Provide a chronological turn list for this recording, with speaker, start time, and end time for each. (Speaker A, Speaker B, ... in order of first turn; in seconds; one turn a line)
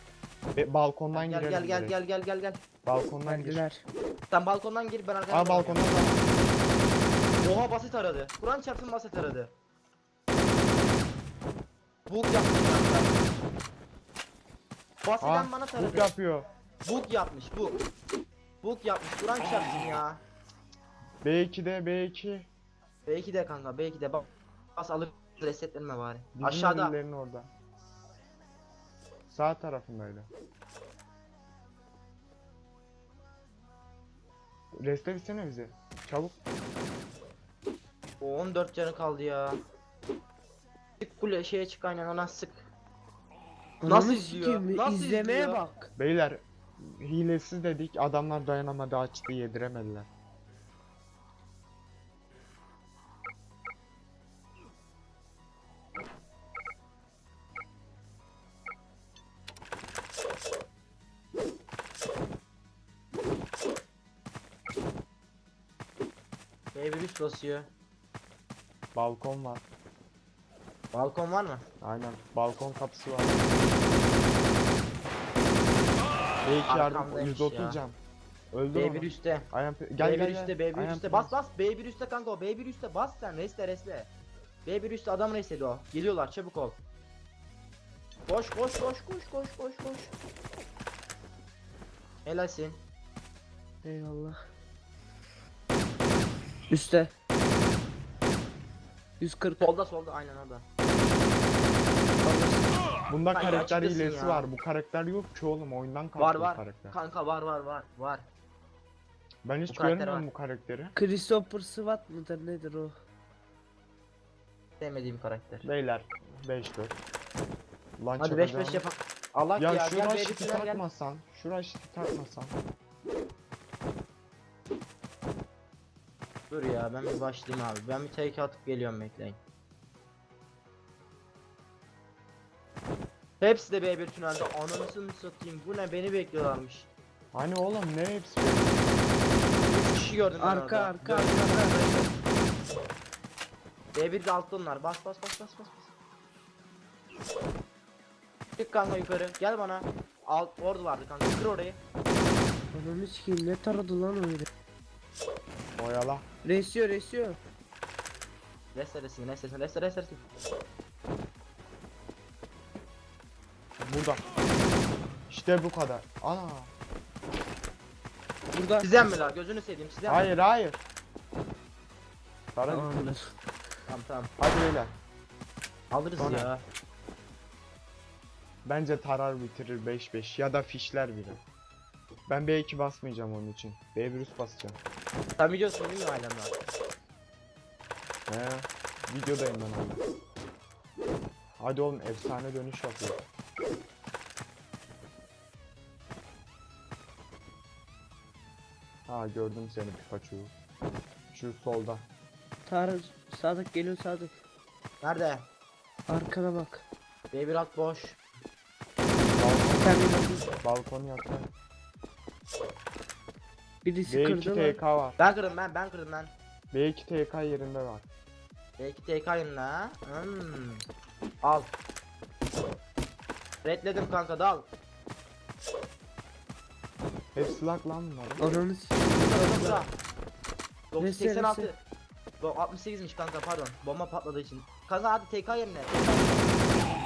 Speaker A: 0.6-1.9
Speaker B: 1.1-2.6
Speaker A: 2.8-3.6
Speaker C: 3.2-3.8
Speaker B: 4.3-5.9
Speaker A: 5.3-6.3
Speaker B: 7.4-9.5
Speaker B: 12.1-13.2
Speaker B: 15.0-16.1
Speaker A: 15.2-16.5
Speaker B: 16.8-17.8
Speaker B: 18.6-20.2
Speaker A: 21.2-22.5
Speaker B: 23.1-27.0
Speaker A: 26.4-27.5
Speaker A: 29.3-30.3
Speaker A: 34.8-36.4
Speaker B: 38.2-39.6
Speaker B: 41.0-42.7
Speaker C: 43.8-45.9
Speaker B: 43.8-45.6
Speaker A: 46.0-50.1
Speaker B: 66.7-67.7
Speaker A: 68.9-69.6
Speaker B: 70.9-71.7
Speaker A: 71.8-73.5
Speaker A: 76.4-78.0
Speaker B: 76.7-77.8
Speaker A: 78.5-81.3
Speaker B: 78.7-84.1
Speaker B: 84.6-86.8
Speaker B: 88.3-90.1
Speaker B: 92.2-92.8
Speaker C: 93.8-94.4
Speaker C: 96.7-97.1
Speaker C: 99.2-99.7
Speaker B: 99.6-100.6
Speaker C: 102.2-102.7
Speaker A: 103.1-107.0
Speaker B: 103.3-104.5
Speaker B: 106.2-108.2
Speaker A: 109.4-110.9
Speaker B: 109.7-110.3
Speaker C: 110.9-112.9
Speaker B: 114.8-115.7
Speaker A: 115.6-117.0
Speaker A: 118.0-118.9
Speaker B: 118.2-120.8
Speaker A: 119.6-122.6
Speaker B: 126.5-129.4
Speaker B: 133.4-136.9
Speaker A: 137.3-139.1
Speaker B: 139.6-142.1
Speaker C: 140.4-142.1
Speaker B: 143.9-145.9
Speaker B: 148.6-151.8
Speaker C: 152.7-154.4
Speaker A: 155.8-156.2
Speaker C: 156.4-157.4
Speaker B: 158.7-160.2
Speaker A: 163.8-164.2
Speaker A: 165.3-166.7
Speaker C: 168.5-168.9
Speaker B: 168.8-170.3
Speaker A: 170.1-170.8
Speaker A: 172.5-173.0
Speaker C: 172.7-173.3
Speaker B: 173.9-174.3
Speaker A: 174.4-174.9
Speaker B: 175.9-176.6
Speaker A: 176.2-176.5
Speaker A: 178.6-181.4
Speaker A: 182.3-184.8
Speaker B: 185.4-186.5
Speaker A: 188.3-190.0
Speaker A: 191.6-193.2
Speaker A: 199.1-200.5
Speaker A: 201.3-202.1
Speaker C: 202.7-204.3
Speaker B: 205.0-205.5
Speaker C: 206.1-206.8
Speaker B: 207.3-208.2
Speaker A: 209.3-211.5
Speaker C: 209.6-210.4
Speaker C: 213.8-214.8
Speaker A: 214.1-215.2
Speaker B: 215.2-216.3
Speaker A: 216.7-218.1
Speaker B: 218.8-220.8
Speaker B: 221.4-221.7
Speaker B: 223.6-224.7
Speaker A: 227.3-228.6
Speaker C: 228.4-229.8
Speaker B: 229.1-229.9
Speaker B: 230.9-231.8
Speaker C: 231.0-231.7
Speaker B: 232.4-236.4